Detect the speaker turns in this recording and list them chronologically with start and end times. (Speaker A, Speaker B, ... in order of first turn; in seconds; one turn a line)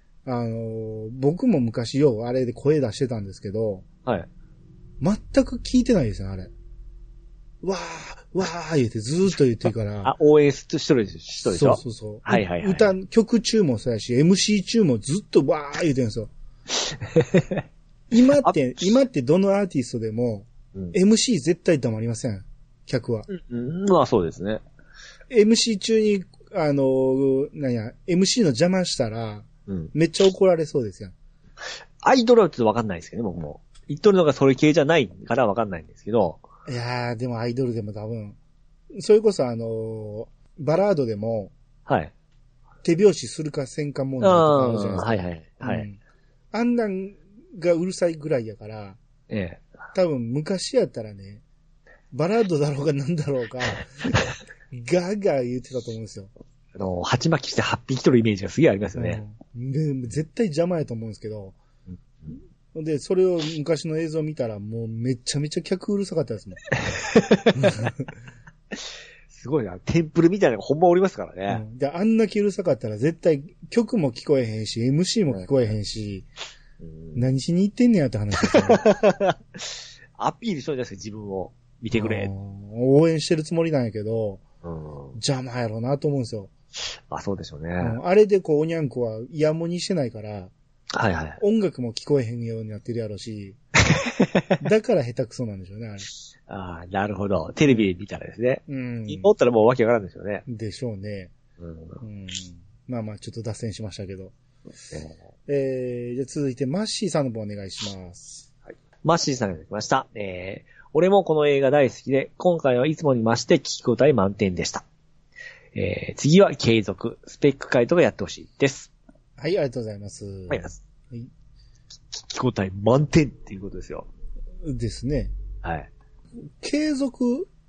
Speaker A: 0.2-3.9
Speaker A: 5.0-6.5
Speaker A: 7.6-10.1
Speaker B: 10.0-12.9
Speaker A: 11.5-16.3
Speaker B: 16.8-17.6
Speaker A: 18.1-23.3
Speaker B: 18.3-18.5
Speaker B: 23.3-24.6
Speaker A: 25.3-31.1
Speaker B: 32.0-36.4
Speaker A: 36.7-38.4
Speaker A: 38.9-41.5
Speaker B: 41.9-42.1
Speaker A: 42.8-46.0
Speaker B: 44.2-45.9
Speaker A: 46.5-49.0
Speaker B: 49.3-49.6
Speaker A: 49.9-51.4
Speaker A: 52.1-54.1
Speaker A: 54.7-56.3
Speaker B: 56.8-59.2
Speaker A: 59.0-61.6
Speaker A: 62.7-66.6
Speaker B: 66.8-67.7
Speaker A: 67.5-68.1
Speaker B: 68.7-71.6
Speaker A: 71.5-76.2
Speaker B: 76.8-77.2
Speaker A: 77.1-78.9
Speaker B: 78.4-82.3
Speaker A: 81.9-84.4
Speaker B: 84.6-85.2
Speaker A: 85.1-86.5
Speaker B: 87.1-88.0
Speaker A: 87.8-90.5
Speaker B: 90.9-91.4
Speaker A: 91.4-93.6
Speaker B: 93.9-94.5
Speaker A: 94.6-96.1
Speaker B: 96.5-100.4
Speaker A: 98.7-99.3
Speaker A: 100.5-101.3
Speaker B: 101.6-102.0
Speaker A: 102.0-104.3
Speaker B: 104.9-105.2
Speaker A: 105.5-108.5
Speaker B: 109.0-114.8
Speaker B: 115.7-118.9
Speaker A: 119.4-121.3
Speaker B: 120.5-120.8
Speaker B: 122.1-124.1
Speaker A: 124.6-125.3
Speaker B: 125.6-125.9
Speaker A: 126.6-127.5